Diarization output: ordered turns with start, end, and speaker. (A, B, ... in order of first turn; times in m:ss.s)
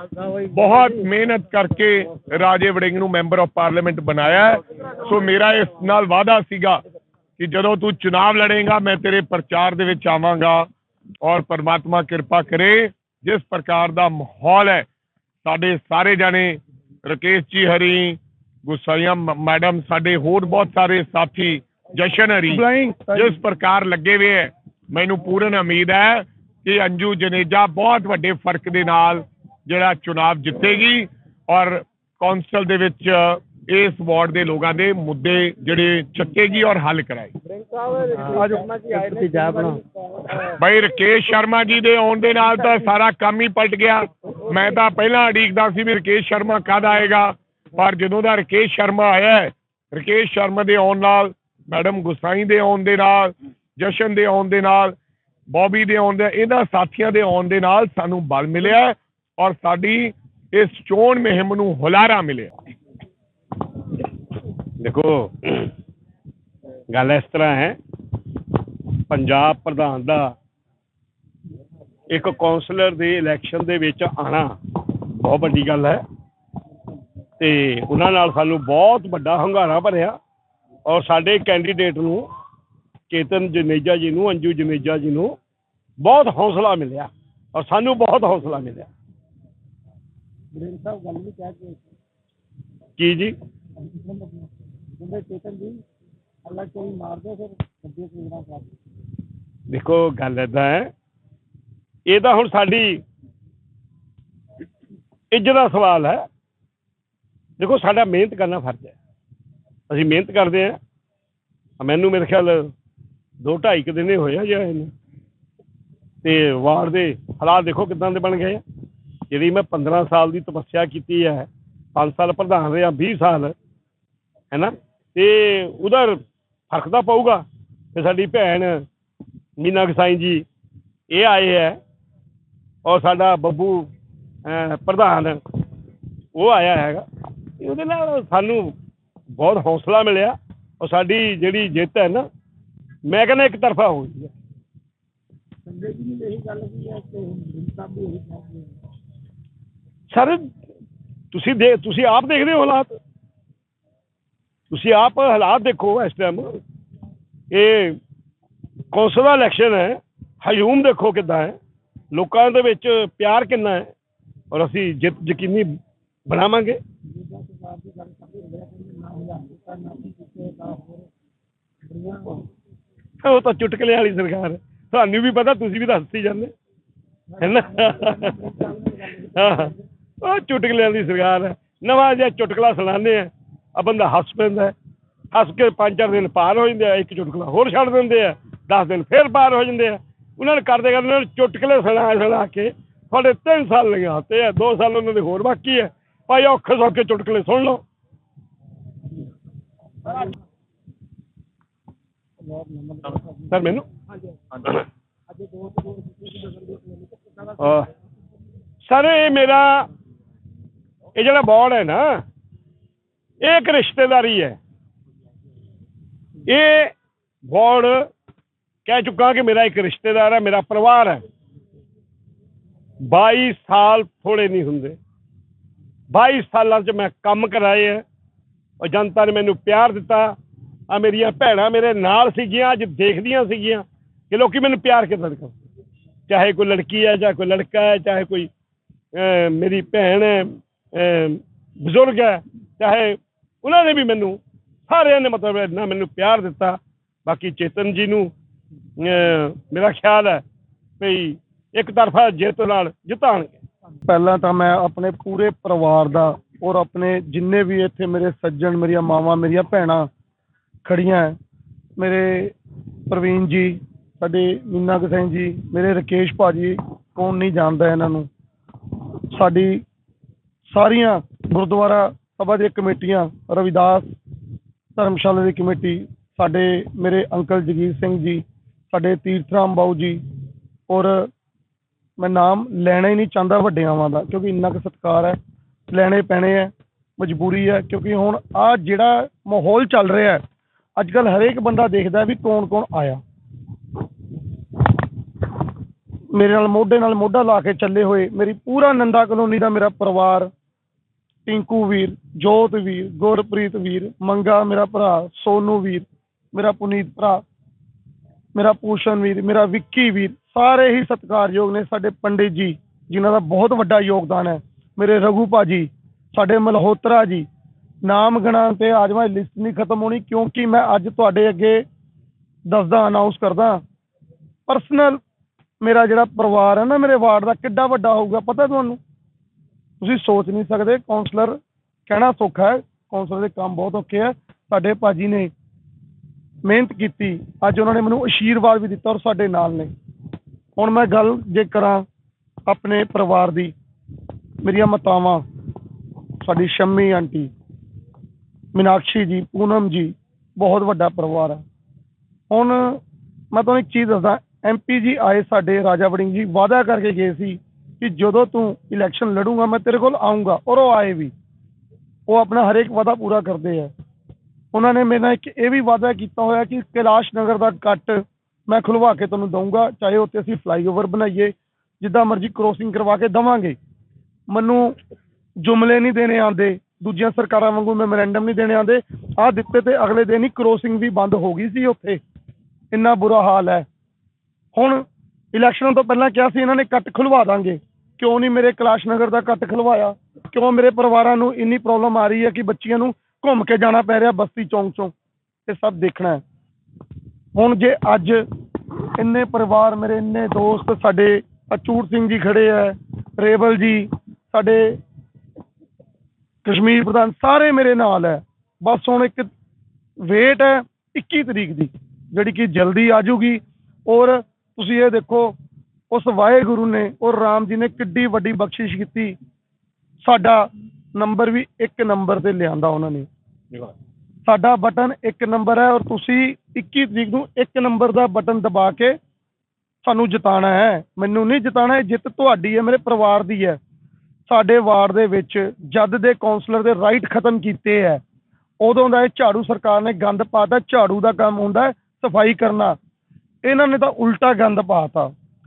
0:00.3-0:06.8 A
0:07.4-0:10.7 A
0:11.2-0:14.9 A
0:15.4-0:37.3 A
0:22.5-0:23.2 B
0:37.8-0:40.5 C
0:40.5-0:54.9 A
0:55.5-1:02.5 A
1:04.8-1:05.7 D
1:06.9-1:07.8 D
1:08.8-1:10.3 D
1:12.1-1:16.0 D
1:17.4-1:20.2 D
1:20.8-1:22.3 D
1:23.1-1:25.4 D
1:26.0-1:28.9 D
1:30.5-1:31.8 C
1:33.0-1:33.3 D
1:33.9-1:34.4 C
1:35.0-1:35.8 C
1:36.4-1:38.7 C
1:39.7-1:40.9 D
1:42.0-1:43.0 D
1:45.3-1:46.2 D
1:47.6-1:48.9 D
1:49.9-1:50.8 D
1:51.8-1:52.7 D
1:53.4-1:54.9 D
1:56.2-1:58.6 D
1:59.3-2:03.5 D
2:04.5-2:08.8 D
2:09.6-2:10.4 D
2:11.1-2:11.8 D
2:12.8-2:13.9 D
2:14.4-2:15.4 D
2:16.3-2:17.0 D
2:17.6-2:18.8 D
2:19.3-2:22.2 D
2:23.0-2:24.3 D
2:25.7-2:28.7 C
2:30.1-2:30.5 D
2:31.3-2:33.0 D
2:34.7-2:36.5 D
2:37.5-2:38.0 D
2:38.9-2:41.6 D
2:42.1-2:43.9 D
2:44.5-2:45.7 D
2:46.3-2:46.8 D
2:47.2-2:51.0 C
2:51.8-2:52.4 C
2:53.2-2:56.5 D
2:57.4-2:58.5 D
2:57.4-2:59.7 C
2:59.1-3:04.7 D
3:05.3-3:17.8 D
3:22.5-3:23.6 C
3:23.5-3:23.8 D
3:25.4-3:27.6 C
3:27.6-3:27.9 D
3:28.8-3:29.9 D
3:31.2-3:32.2 D
3:33.4-3:34.6 D
3:36.5-3:36.9 D
3:37.4-3:38.1 D
3:38.8-3:41.2 D
3:43.0-3:45.0 D
3:46.1-3:48.0 D
3:48.8-3:50.4 D
3:50.9-3:55.5 D
3:56.3-3:58.5 D
3:59.1-4:08.3 D
4:09.0-4:10.4 D
4:11.0-4:13.6 D
4:14.1-4:20.1 B
4:20.8-4:21.4 B
4:22.0-4:22.5 B
4:23.1-4:28.3 B
4:29.3-4:29.8 B
4:30.7-4:34.2 B
4:35.0-4:40.2 B
4:40.9-4:41.3 B
4:42.2-4:45.4 B
4:45.9-4:50.4 B
4:51.0-4:53.2 B
4:56.3-5:00.5 B
5:01.4-5:07.4 B
5:08.5-5:17.5 B
5:18.0-5:21.8 B
5:22.7-5:23.8 B
5:24.7-5:25.2 B
5:25.8-5:29.0 B
5:30.0-5:35.5 B
5:36.6-5:39.9 B
5:40.8-5:42.0 B
5:42.7-5:43.7 B
5:44.6-5:45.4 B
5:46.4-5:47.5 B
5:48.7-5:51.6 B
5:52.5-6:01.3 B
6:02.3-6:03.9 B
6:04.7-6:13.8 B
6:14.5-6:15.0 B
6:15.6-6:22.2 B
6:22.9-6:23.8 B
6:24.7-6:35.1 B
6:35.7-6:36.4 B
6:37.5-6:38.4 B
6:39.2-6:45.0 B
6:46.6-6:49.5 B
6:50.2-6:55.5 B
6:56.1-6:59.4 B
7:00.2-7:03.3 B
7:04.4-7:09.2 B
7:10.0-7:13.8 B
7:14.5-7:18.2 B
7:18.8-7:23.0 B
7:23.6-7:25.3 B